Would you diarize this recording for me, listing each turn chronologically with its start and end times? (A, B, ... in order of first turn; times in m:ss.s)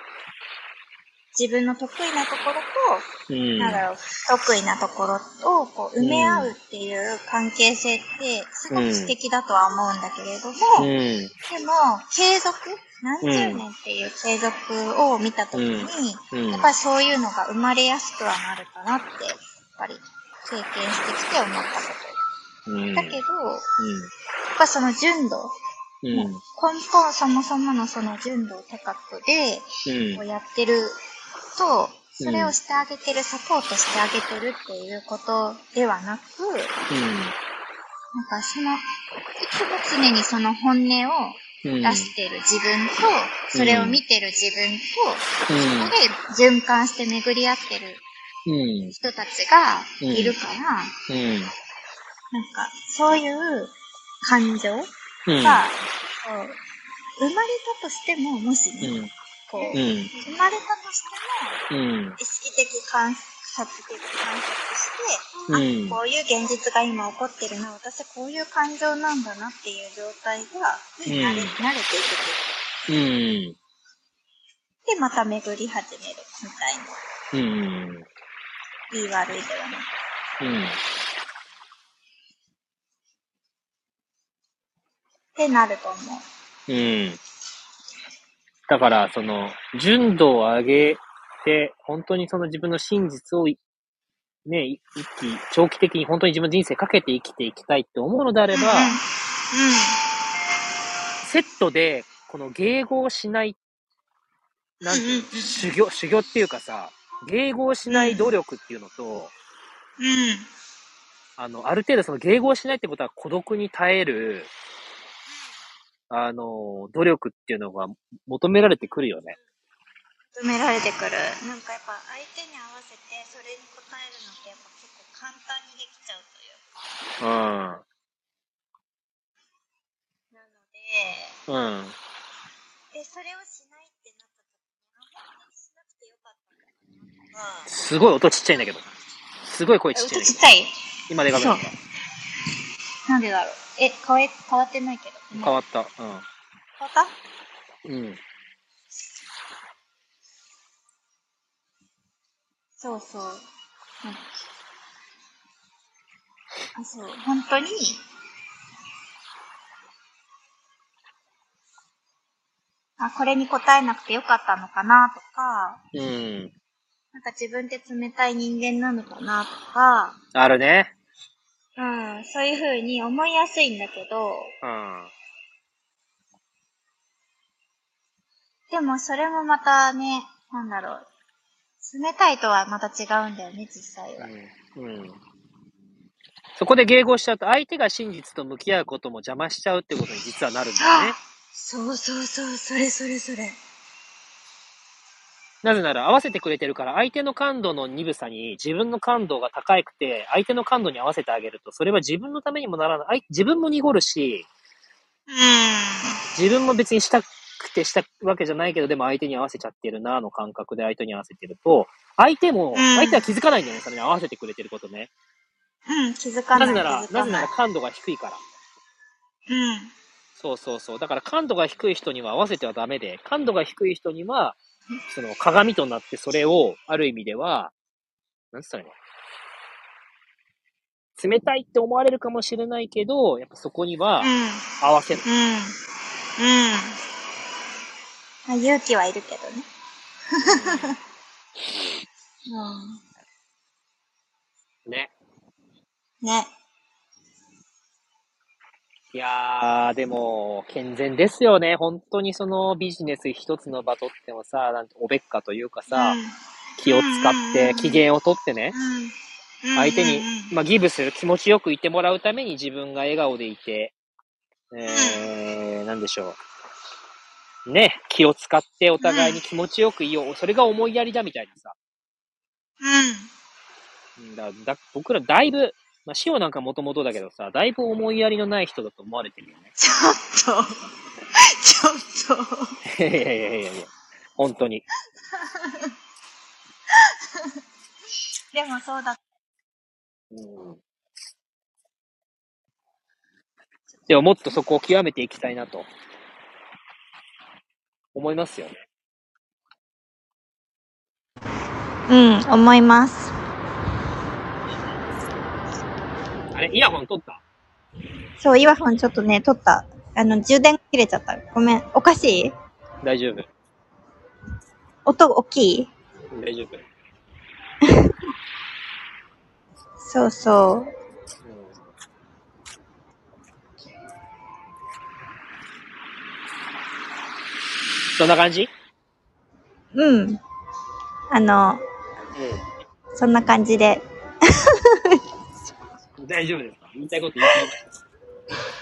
0:01.3-0:03.1 A
0:03.3-0:03.8 B
0:03.6-0:10.9 A
0:06.0-0:06.5 B
0:08.7-0:09.1 B
0:10.8-0:11.3 B
0:11.5-0:22.2 A
0:13.2-0:13.6 B
0:15.5-0:16.7 B
0:22.7-0:23.2 B
0:23.0-0:23.7 A
0:23.8-0:24.1 B
0:24.6-0:25.5 A
0:26.0-0:26.4 B
0:26.1-0:31.0 A
0:29.9-0:30.2 B
0:31.6-0:36.7 A
0:32.2-0:32.6 B
0:36.9-0:37.4 B
0:38.1-0:38.8 A
0:39.4-0:48.0 A
0:41.6-0:42.1 B
0:43.5-0:44.0 B
0:45.5-0:45.9 B
0:48.5-0:49.0 B
0:49.0-0:51.0 A
0:50.0-0:50.4 B
0:51.1-0:51.5 B
0:52.3-0:54.9 A
0:55.3-0:55.7 B
0:55.4-0:56.6 A
0:57.2-0:59.0 A
0:58.8-0:59.1 B
0:59.5-1:01.6 A
0:59.8-1:00.1 B
1:01.7-1:02.2 B
1:02.2-1:12.5 A
1:05.5-1:06.0 B
1:11.1-1:11.6 B
1:12.9-1:13.6 B
1:14.8-1:17.0 A
1:17.3-1:18.1 B
1:18.9-1:19.9 A
1:20.4-1:20.8 B
1:25.4-1:26.2 A
1:26.7-1:27.2 B
1:28.7-1:33.6 B
1:34.5-1:39.0 B
1:38.5-1:40.0 A
1:41.2-1:43.6 B
1:44.8-1:49.3 B
1:44.9-1:45.6 A
1:47.9-1:48.3 A
1:50.0-1:50.5 A
1:51.4-1:54.5 B
1:56.1-1:59.4 B
2:00.3-2:06.6 A
2:07.2-2:07.8 B
2:10.3-2:11.4 A
2:11.5-2:12.0 B
2:12.9-2:17.7 A
2:17.7-2:18.9 B
2:19.4-2:20.4 B
2:20.0-2:20.7 A
2:21.1-2:21.8 B
2:21.3-2:21.7 A
2:23.1-2:25.6 A
2:25.4-2:26.2 B
2:26.8-2:27.1 A
2:27.9-2:28.2 B
2:32.8-2:33.4 A
2:34.0-2:34.3 A
2:36.8-2:38.0 A
2:43.0-2:45.8 A
2:45.9-2:46.5 B
2:47.1-2:50.2 A
2:50.4-2:50.9 B
2:51.8-2:54.5 A
2:54.6-2:55.1 B
2:58.7-3:01.1 A
3:01.8-3:04.3 A
3:04.2-3:05.2 B
3:06.6-3:11.2 B
3:10.8-3:13.6 A
3:15.6-3:24.5 B
3:25.3-3:26.2 A
3:26.3-3:35.1 B
3:32.7-3:33.2 A
3:35.9-3:37.5 A
3:36.6-3:38.4 B
3:39.5-3:39.9 A
3:40.4-3:44.6 B
3:45.1-3:47.7 B
3:48.5-3:49.0 B
3:51.2-3:55.2 B
3:54.2-3:54.6 A
3:55.2-3:55.8 A
3:56.4-3:57.0 A
3:58.5-3:59.7 A
4:00.4-4:01.0 A
4:00.4-4:01.0 B
4:02.5-4:03.0 A
4:04.9-4:05.1 B
4:06.2-4:06.5 A
4:09.1-4:16.2 B
4:15.9-4:18.0 A
4:16.8-4:18.8 B
4:18.7-4:20.5 A
4:19.8-4:24.0 B
4:24.7-4:26.4 B
4:24.9-4:25.3 A
4:27.7-4:31.8 B
4:29.0-4:29.4 A
4:32.8-4:33.3 A
4:34.2-4:39.7 B
4:39.8-4:40.9 A
4:41.6-4:42.7 A
4:42.9-4:44.8 B
4:45.4-4:45.9 A
4:48.5-4:49.2 A
4:50.3-4:50.8 B
4:54.1-4:55.9 B
4:58.2-4:58.8 B
5:02.1-5:03.3 A
5:06.5-5:07.4 B
5:08.4-5:12.5 A
5:13.0-5:13.5 B
5:15.1-5:15.9 A
5:16.3-5:16.8 B
5:20.0-5:20.9 A
5:21.4-5:21.8 B
5:28.2-5:28.7 B
5:29.9-5:30.4 A
5:31.3-5:31.8 A
5:32.3-5:32.6 B
5:33.2-5:34.0 A
5:36.2-5:37.8 B